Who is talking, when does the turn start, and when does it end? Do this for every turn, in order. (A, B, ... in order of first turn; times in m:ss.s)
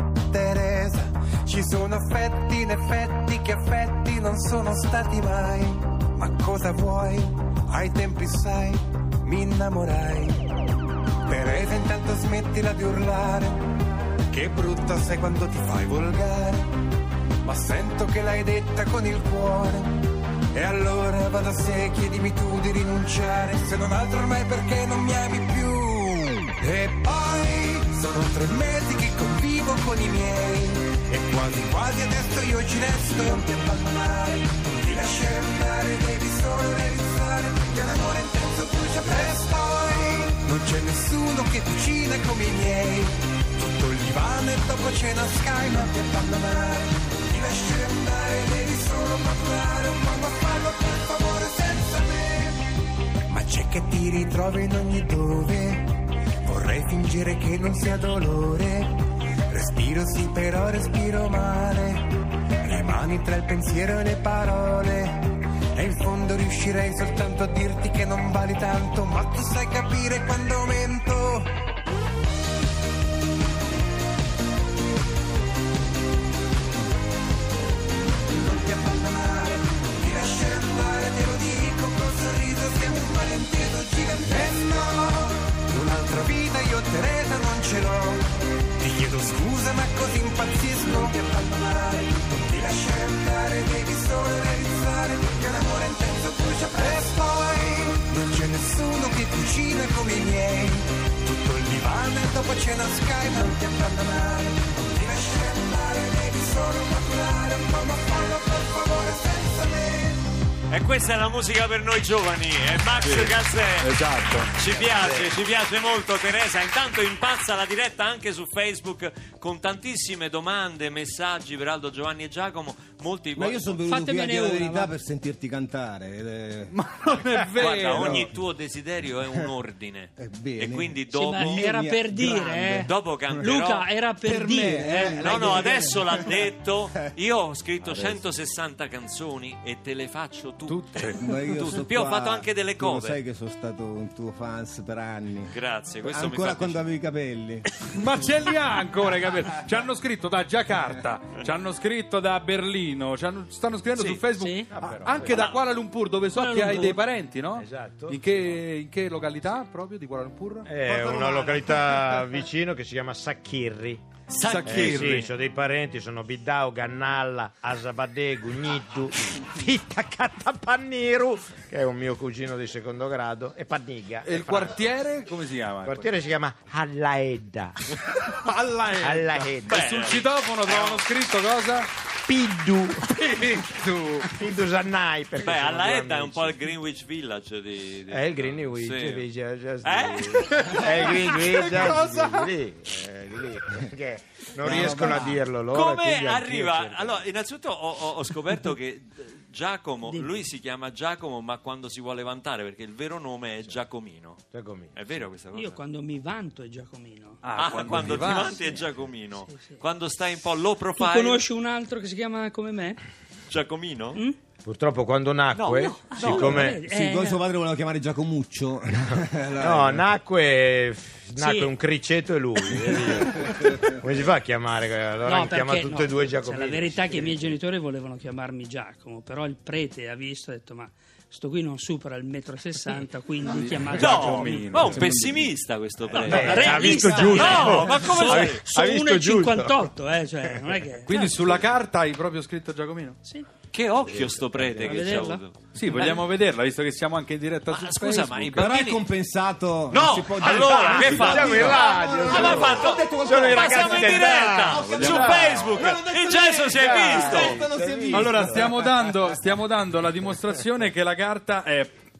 0:00.3-0:10.4 A
0:11.2-0:16.7 A
0:17.4-0:52.6 A
0:53.3-0:58.9 A
0:59.5-1:11.5 A
1:18.3-1:28.2 A
1:28.8-1:50.2 A
1:50.7-2:03.8 B
1:53.0-1:54.5 C
1:54.6-1:55.3 D
2:03.4-2:06.7 E
2:03.9-2:04.9 F
2:06.7-2:08.3 C
2:07.6-2:11.7 B
2:07.7-2:08.3 E
2:10.2-2:13.5 E
2:11.1-2:15.5 F
2:12.8-2:13.9 B
2:14.2-2:16.5 E
2:15.2-2:23.2 B
2:17.9-2:18.2 E
2:20.7-2:21.4 C
2:21.2-2:27.7 E
2:25.5-2:26.9 B
2:27.9-2:40.7 C
2:34.3-2:34.7 F
2:34.7-2:35.6 D
2:35.2-2:35.6 B
2:36.3-2:37.0 F
2:37.5-2:38.6 D
2:40.7-2:44.0 D
2:40.8-2:42.2 E
2:44.3-2:45.2 B
2:44.4-2:45.3 C
2:44.6-2:54.8 D
2:54.2-2:56.1 C
2:55.8-2:57.8 D
2:58.3-3:01.9 C
2:58.9-3:00.2 D
2:59.6-3:01.0 B
3:02.2-3:03.1 D
3:03.1-3:04.3 C
3:04.3-3:06.6 D
3:05.4-3:09.3 B
3:08.1-3:17.2 D
3:09.8-3:11.1 B
3:10.6-3:12.5 C
3:14.6-3:15.4 E
3:14.7-3:15.0 C
3:15.7-3:25.8 B
3:24.5-3:25.0 D
3:25.5-3:27.4 F
3:27.4-3:28.8 C
3:27.5-3:31.4 B
3:29.5-3:29.8 F
3:31.0-3:33.0 F
3:33.5-3:34.2 B
3:34.6-3:36.8 D
3:35.5-3:36.6 B
3:36.1-3:37.4 F
3:36.6-3:40.1 E
3:39.6-3:47.6 D
3:41.4-3:41.7 F
3:42.9-3:44.0 E
3:45.2-3:54.8 F
3:53.4-3:55.4 C
3:53.9-3:58.6 B
3:54.9-3:55.3 E
3:56.2-3:59.9 D
3:56.2-3:58.0 E
3:56.2-4:01.5 F
4:01.0-4:03.2 C
4:03.7-4:06.3 B
4:04.1-4:04.6 D
4:04.8-4:05.4 F
4:05.7-4:08.7 C
4:07.7-4:09.0 B
4:08.5-4:19.1 E
4:09.9-4:17.6 B
4:10.4-4:15.7 D
4:14.8-4:15.7 C
4:16.8-4:18.8 D
4:18.1-4:21.9 C